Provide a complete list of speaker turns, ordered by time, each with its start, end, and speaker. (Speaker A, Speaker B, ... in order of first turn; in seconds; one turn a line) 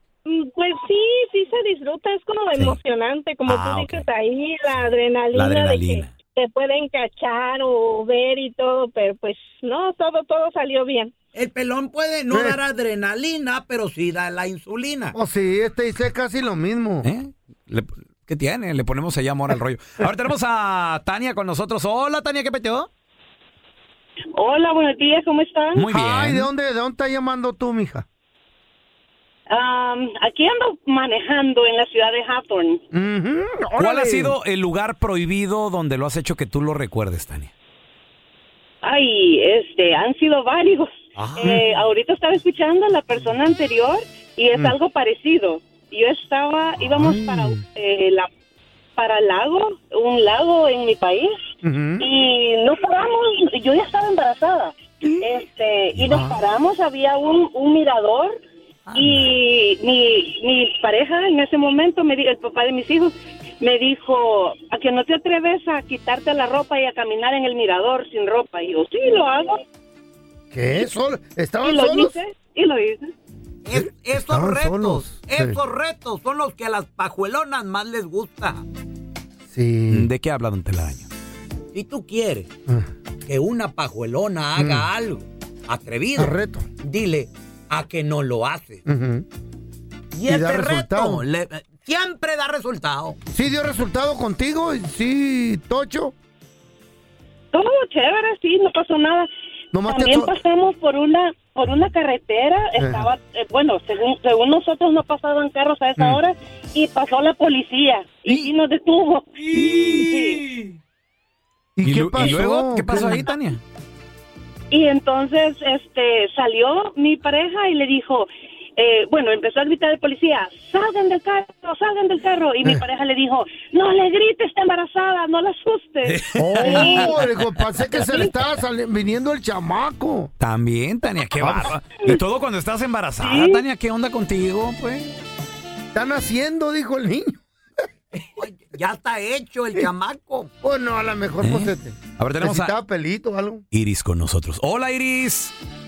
Speaker A: 0.2-11.1
Speaker B: 3.4-4.0
Speaker B: 5.3-6.1
Speaker C: 11.3-15.1
Speaker D: 12.3-12.6
Speaker D: 15.1-17.1
Speaker B: 17.0-22.9
Speaker E: 24.3-25.8
Speaker B: 25.7-26.5
Speaker D: 25.9-28.1
Speaker E: 29.5-32.8
Speaker D: 32.9-34.3
Speaker B: 33.8-37.5
Speaker E: 38.8-48.3
Speaker B: 41.1-41.6
Speaker D: 46.9-47.6
Speaker E: 49.0-51.3
Speaker D: 51.6-52.0
Speaker E: 52.0-58.4
Speaker D: 56.0-56.4
Speaker E: 58.9-69.6
Speaker B: 59.0-59.2
Speaker D: 70.5-72.2
Speaker E: 71.6-73.1
Speaker C: 73.7-78.6
Speaker D: 73.7-75.6
Speaker D: 79.5-80.1
Speaker B: 79.9-81.1
Speaker C: 81.7-82.5
Speaker C: 83.2-88.8
Speaker D: 84.5-84.9
Speaker D: 86.1-86.7
Speaker D: 88.8-89.3
Speaker C: 90.1-93.2
Speaker D: 90.2-91.2
Speaker D: 93.3-96.1
Speaker E: 97.5-99.3
Speaker D: 99.7-100.3
Speaker E: 99.9-110.4
Speaker D: 102.8-103.1
Speaker D: 109.5-110.1
Speaker D: 111.8-113.2
Speaker B: 111.8-113.6
Speaker E: 114.7-127.1
Speaker B: 126.0-127.1
Speaker D: 126.3-130.3
Speaker B: 130.4-135.1
Speaker D: 131.4-131.8
Speaker E: 133.2-133.6
Speaker D: 135.9-137.4
Speaker C: 138.1-140.5
Speaker D: 140.6-143.6
Speaker B: 141.4-142.7
Speaker B: 143.7-145.5